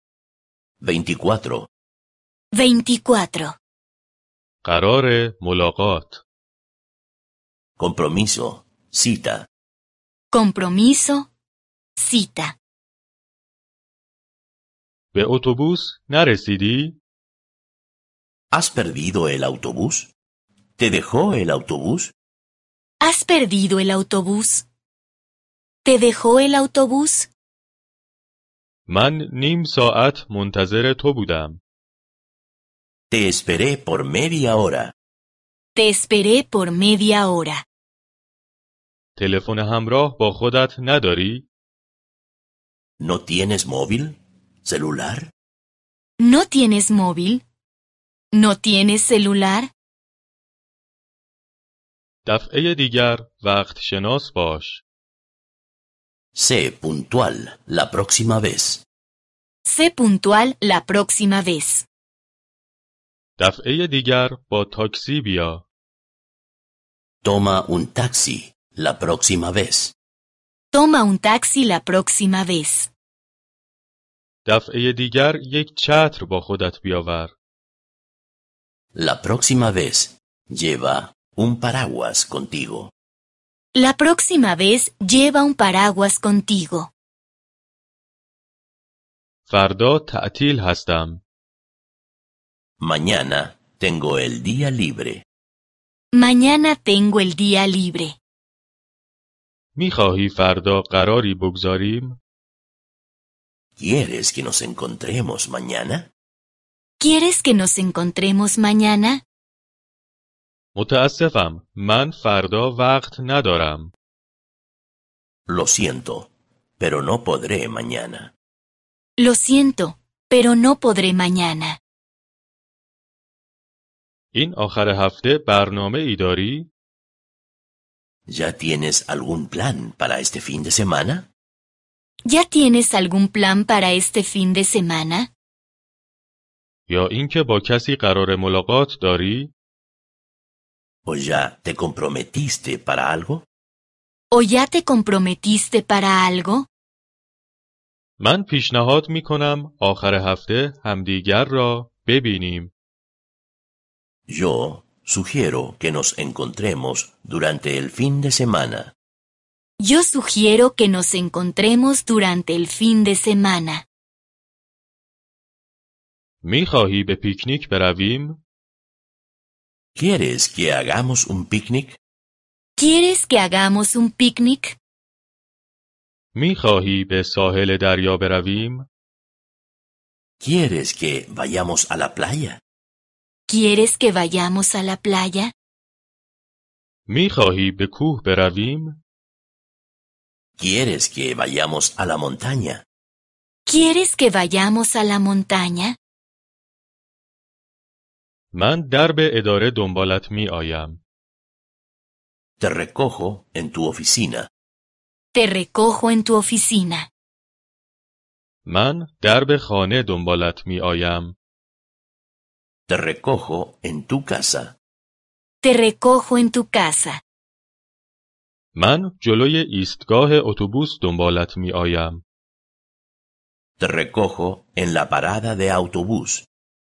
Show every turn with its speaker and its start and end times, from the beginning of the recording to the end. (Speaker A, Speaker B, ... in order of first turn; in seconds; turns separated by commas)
Speaker A: 0.8-1.7, Speaker B: 2.5-3.6, Speaker C: 4.6-6.2, Speaker A: 7.8-9.5, Speaker B: 10.3-11.3, Speaker B: 12.0-12.6, Speaker C: 15.1-17.0, Speaker A: 18.5-20.1, Speaker A: 20.8-22.1, Speaker B: 23.0-24.6, Speaker B: 25.8-27.3, Speaker C: 28.9-31.6, Speaker A: 33.1-34.9, Speaker B: 35.7-37.6, Speaker C: 39.1-41.5, Speaker A: 43.0-45.3, Speaker B: 46.2-47.4, Speaker B: 48.3-49.7, Speaker C: 52.2-54.8, Speaker A: 56.3-58.8, Speaker B: 59.6-61.9, Speaker C: 63.4-65.6, Speaker A: 67.2-69.9, Speaker B: 70.7-72.9, Speaker C: 74.4-77.3, Speaker A: 78.9-82.9, Speaker B: 83.7-86.9, Speaker C: 89.5-91.2, Speaker A: 92.8-95.2, Speaker B: 96.1-98.2, Speaker C: 99.8-102.2, Speaker A: 103.8-106.1, Speaker B: 107.0-109.2, Speaker C: 110.7-113.9, Speaker A: 115.5-118.3, Speaker B: 119.2-121.8, Speaker C: 124.3-126.7, Speaker A: 128.3-131.3, Speaker B: 132.2-135.3, Speaker C: 136.9-139.5, Speaker A: 141.1-143.4, Speaker B: 144.3-146.7, Speaker C: 148.2-152.7, Speaker A: 154.3-158.9, Speaker B: 159.8-163.8, Speaker C: 166.4-168.4, Speaker A: 169.9-172.0, Speaker B: 172.8-174.8, Speaker C: 176.3-178.9, Speaker A: 180.4-182.6, Speaker B: 183.5-185.5, Speaker C: 187.1-189.0, Speaker A: 190.6-192.8, Speaker B: 193.7-195.9, Speaker C: 198.5-201.0, Speaker A: 202.6-204.5, Speaker B: 205.3-207.1, Speaker C: 208.7-211.3, Speaker A: 212.9-214.7, Speaker B: 215.6-217.2, Speaker C: 218.7-222.2, Speaker A: 223.8-226.5